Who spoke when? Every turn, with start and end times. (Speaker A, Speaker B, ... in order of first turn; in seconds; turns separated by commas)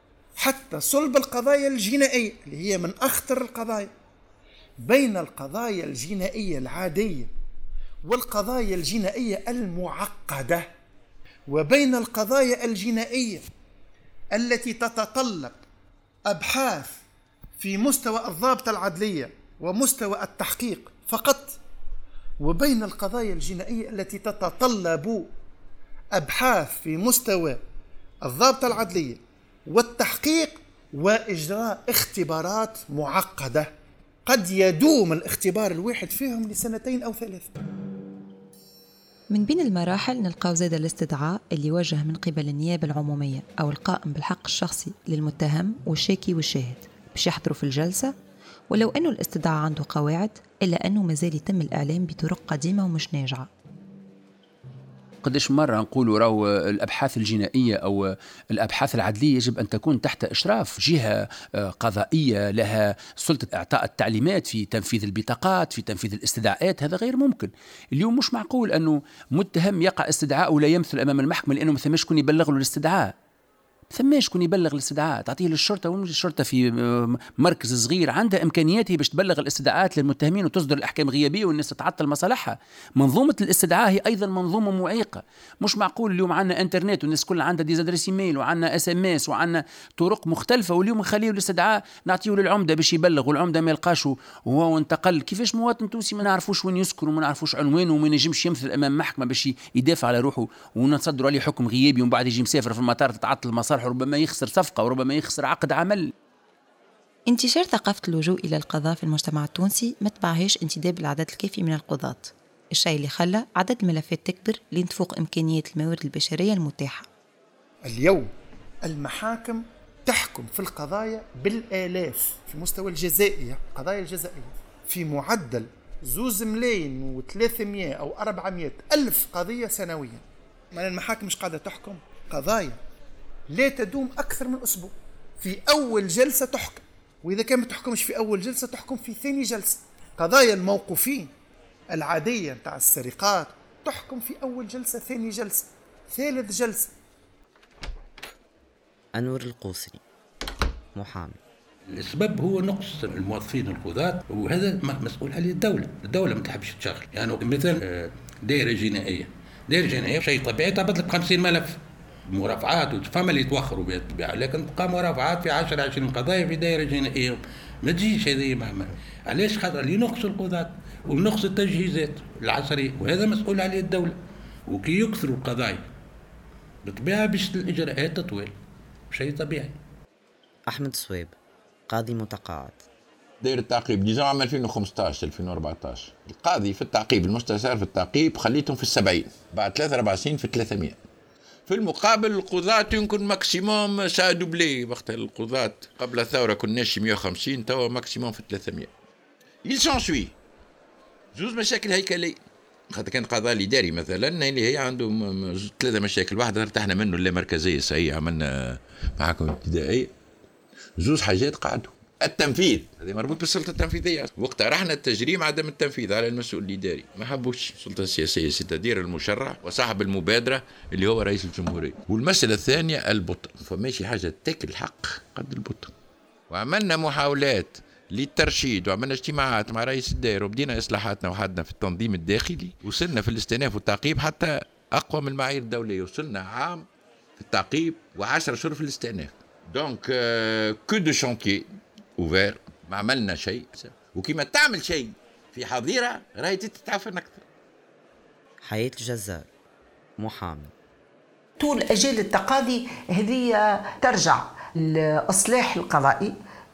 Speaker A: 0.4-3.9, Speaker A: 4.8-7.3, Speaker A: 8.1-10.7, Speaker A: 11.5-13.4, Speaker A: 14.3-15.6, Speaker A: 16.3-17.1, Speaker A: 17.6-21.6, Speaker A: 22.4-25.3, Speaker A: 26.1-27.6, Speaker A: 28.2-33.7, Speaker A: 34.3-37.5, Speaker B: 39.3-48.1, Speaker B: 48.7-53.5, Speaker C: 55.2-73.1, Speaker C: 73.9-106.1, Speaker B: 107.3-117.1, Speaker A: 117.9-118.3, Speaker A: 118.8-130.2, Speaker A: 130.8-132.8, Speaker A: 133.5-141.3, Speaker A: 141.9-146.9, Speaker D: 149.2-150.0, Speaker D: 150.9-151.4, Speaker E: 151.9-175.9, Speaker E: 176.8-178.6, Speaker E: 179.1-179.8, Speaker D: 180.7-181.4, Speaker D: 181.9-182.8, Speaker F: 183.4-191.0, Speaker F: 191.7-198.9, Speaker F: 199.6-200.3, Speaker F: 201.3-210.1, Speaker F: 211.0-225.9, Speaker F: 226.5-236.9, Speaker F: 237.4-247.4, Speaker D: 248.6-249.5, Speaker D: 250.2-250.7, Speaker G: 251.6-256.3